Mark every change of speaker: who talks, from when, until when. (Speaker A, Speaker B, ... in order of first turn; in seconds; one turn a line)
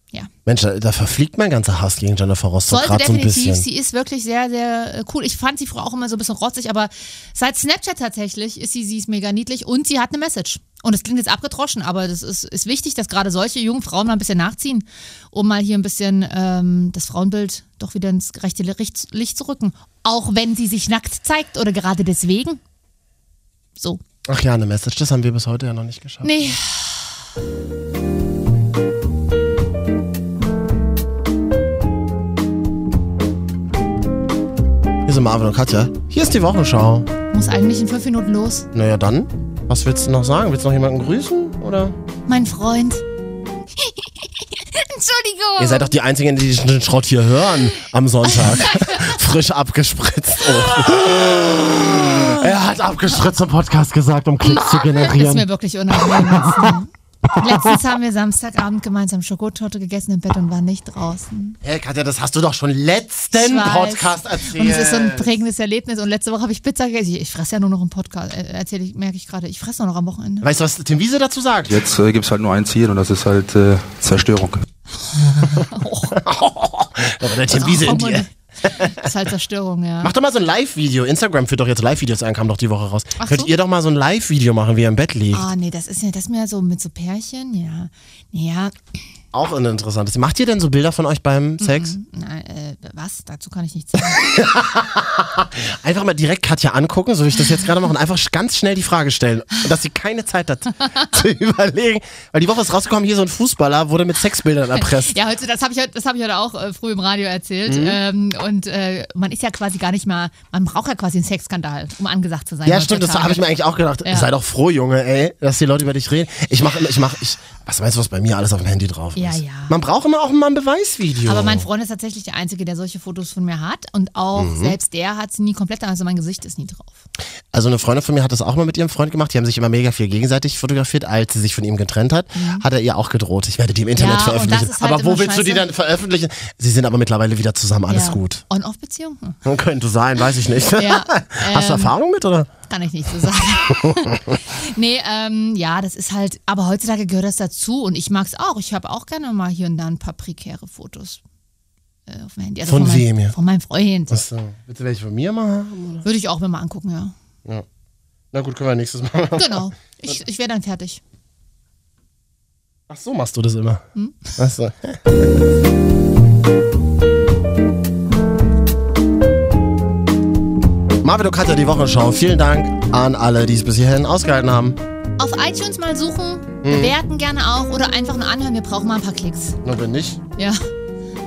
Speaker A: 0.4-3.6
Speaker B: 2.7-22.6
Speaker A: 24.3-26.5
Speaker B: 26.2-26.9
Speaker A: 35.0-37.1
Speaker B: 37.3-38.7
Speaker A: 38.7-42.0
Speaker B: 42.3-43.0
Speaker B: 43.8-45.9
Speaker A: 45.6-51.5
Speaker B: 48.2-49.2
Speaker B: 50.4-51.0
Speaker B: 51.8-52.4
Speaker A: 52.0-55.5
Speaker B: 54.4-61.6
Speaker A: 61.6-65.3
Speaker B: 63.3-70.5
Speaker A: 70.4-71.8
Speaker C: 71.7-74.6
Speaker B: 75.0-76.2
Speaker A: 76.1-79.0
Speaker B: 77.5-80.1
Speaker A: 80.0-85.5
Speaker B: 83.2-83.5
Speaker B: 85.3-88.8
Speaker A: 89.3-91.9
Speaker B: 91.6-94.3
Speaker A: 94.1-105.1
Speaker B: 104.7-113.4
Speaker A: 107.7-108.0
Speaker A: 112.7-121.7
Speaker B: 119.2-119.7
Speaker B: 121.2-127.0
Speaker A: 124.3-124.8
Speaker A: 127.5-138.4
Speaker B: 132.3-132.6
Speaker B: 133.9-135.7
Speaker B: 137.9-139.4
Speaker A: 139.4-142.5
Speaker B: 140.7-141.9
Speaker B: 142.7-151.2
Speaker A: 143.8-144.3
Speaker B: 152.1-154.2
Speaker A: 152.7-153.3
Speaker A: 154.1-156.0
Speaker B: 156.0-157.1
Speaker A: 158.3-159.7
Speaker B: 159.3-161.0
Speaker A: 162.9-163.8
Speaker B: 163.9-164.3
Speaker A: 164.3-165.3
Speaker A: 171.0-174.8
Speaker B: 175.2-179.6
Speaker A: 176.6-176.9
Speaker A: 179.6-180.2
Speaker B: 180.4-180.6